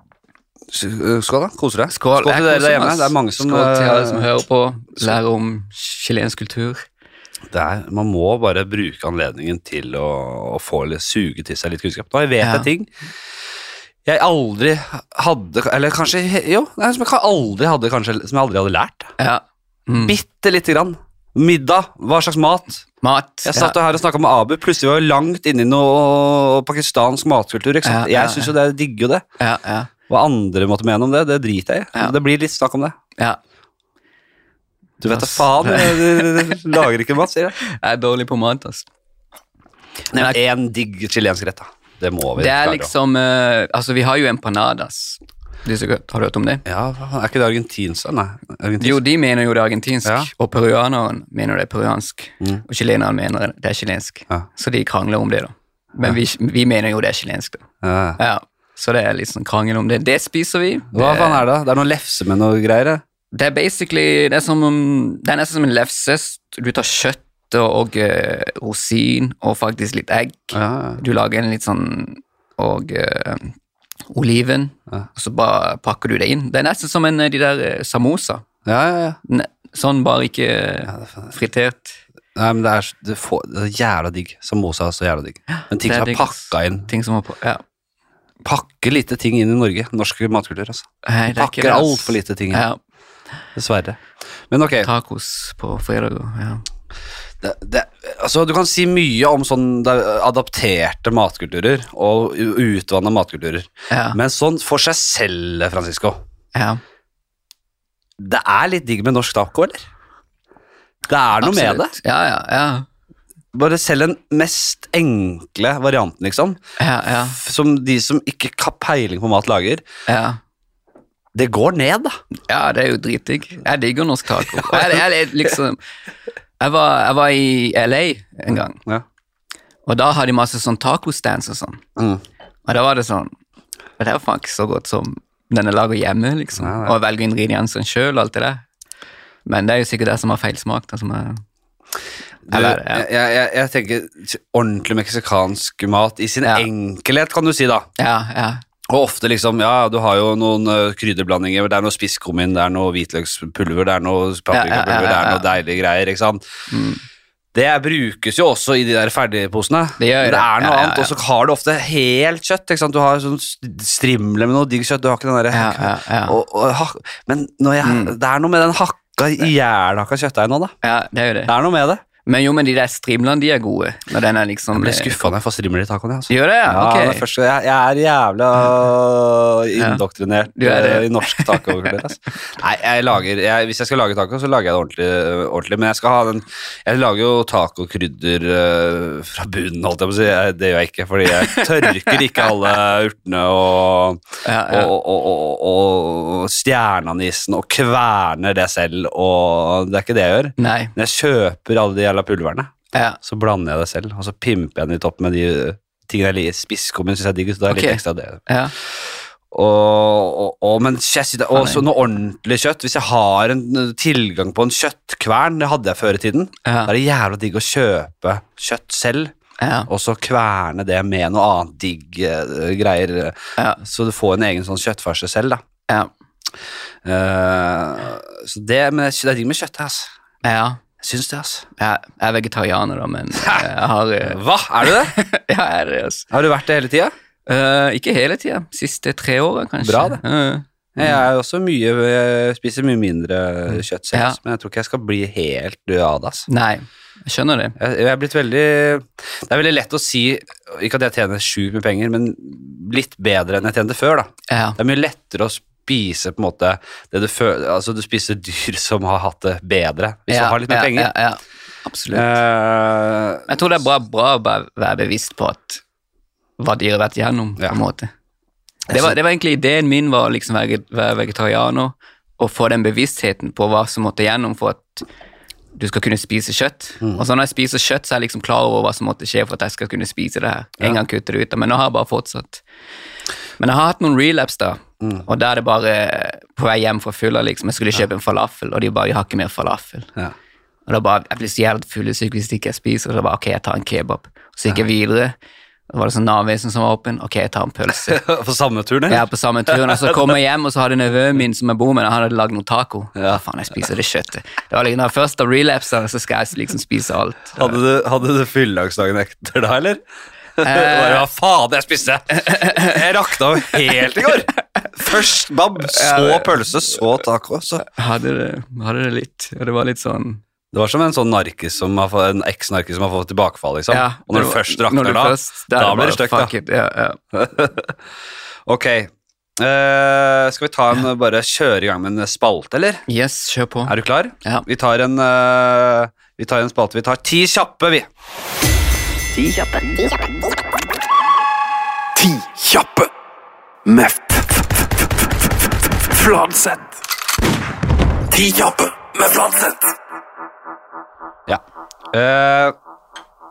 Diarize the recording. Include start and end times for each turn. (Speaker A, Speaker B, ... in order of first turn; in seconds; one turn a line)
Speaker A: 0.7-4.3
Speaker B: 1.9-6.8
Speaker A: 7.5-12.9
Speaker B: 12.4-12.7
Speaker A: 14.0-19.1
Speaker B: 19.2-20.1
Speaker A: 19.9-22.9
Speaker B: 23.0-23.8
Speaker A: 23.4-29.2
Speaker B: 27.8-28.5
Speaker B: 29.4-29.9
Speaker A: 30.1-33.0
Speaker A: 35.0-37.6
Speaker B: 35.1-36.6
Speaker B: 37.6-38.9
Speaker A: 40.1-42.9
Speaker B: 42.4-46.6
Speaker A: 46.6-49.0
Speaker B: 48.8-57.6
Speaker A: 57.8-58.2
Speaker B: 58.2-61.4
Speaker A: 60.9-63.0
Speaker B: 63.3-73.5
Speaker A: 70.5-71.0
Speaker B: 74.1-78.4
Speaker A: 78.6-79.2
Speaker B: 79.2-82.0
Speaker A: 80.9-81.3
Speaker A: 82.3-86.9
Speaker B: 85.5-87.6
Speaker A: 88.4-92.6
Speaker B: 91.0-92.8
Speaker A: 93.5-94.9
Speaker B: 94.8-96.7
Speaker A: 97.4-106.2
Speaker B: 103.9-104.2
Speaker B: 106.5-106.8
Speaker A: 108.2-109.8
Speaker A: 111.1-111.9
Speaker B: 111.4-112.9
Speaker A: 113.5-116.6
Speaker B: 116.8-117.4
Speaker A: 117.2-119.8
Speaker B: 120.1-120.4
Speaker A: 121.3-122.2
Speaker B: 122.5-125.8
Speaker B: 126.6-128.8
Speaker A: 128.5-129.0
Speaker B: 129.8-131.8
Speaker A: 131.9-132.2
Speaker B: 132.7-133.3
Speaker B: 134.0-138.6
Speaker A: 136.6-136.9
Speaker B: 139.4-141.4
Speaker A: 142.5-147.9
Speaker B: 142.5-143.1
Speaker B: 148.0-148.6
Speaker A: 148.9-156.4
Speaker B: 154.5-155.4
Speaker B: 156.7-157.0
Speaker A: 157.5-170.7
Speaker B: 160.0-161.1
Speaker B: 165.5-166.4
Speaker B: 167.8-168.1
Speaker B: 170.8-171.5
Speaker A: 171.5-172.0
Speaker B: 172.2-175.3
Speaker A: 174.7-219.3
Speaker B: 176.3-177.2
Speaker B: 179.8-180.0
Speaker B: 180.6-182.0
Speaker B: 191.4-192.2
Speaker B: 194.4-194.9
Speaker B: 200.6-200.9
Speaker B: 202.9-203.2
Speaker B: 207.7-208.7
Speaker B: 211.5-211.8
Speaker B: 216.6-216.9
Speaker B: 219.6-219.9
Speaker A: 219.9-225.6
Speaker A: 227.0-230.1
Speaker B: 230.4-230.8
Speaker A: 231.0-231.7
Speaker B: 231.8-236.3
Speaker A: 233.4-233.7
Speaker A: 234.2-235.2
Speaker A: 236.3-237.1
Speaker B: 237.4-241.2
Speaker A: 239.8-240.2
Speaker A: 240.9-246.5
Speaker B: 243.7-244.4
Speaker B: 246.5-247.8
Speaker A: 247.8-261.1
Speaker B: 254.5-254.8
Speaker B: 260.3-262.4
Speaker A: 262.1-263.5
Speaker B: 263.5-265.8
Speaker B: 266.6-268.1
Speaker B: 268.9-275.0
Speaker B: 275.7-282.6
Speaker B: 283.6-290.1
Speaker A: 285.0-285.2
Speaker B: 290.9-295.4
Speaker B: 295.9-298.2
Speaker A: 298.1-300.1
Speaker B: 299.1-307.8
Speaker A: 303.1-303.4
Speaker A: 307.6-310.0
Speaker A: 310.6-317.9
Speaker B: 310.6-311.2
Speaker B: 312.5-312.9
Speaker B: 315.8-316.6
Speaker B: 317.8-320.4
Speaker A: 320.7-326.5
Speaker B: 323.9-327.2
Speaker A: 327.3-328.0
Speaker A: 328.6-333.0
Speaker B: 333.1-333.9
Speaker A: 333.9-338.1
Speaker C: 342.2-343.1
Speaker C: 343.9-344.6
Speaker C: 346.1-346.9
Speaker C: 348.3-349.8
Speaker A: 351.5-352.7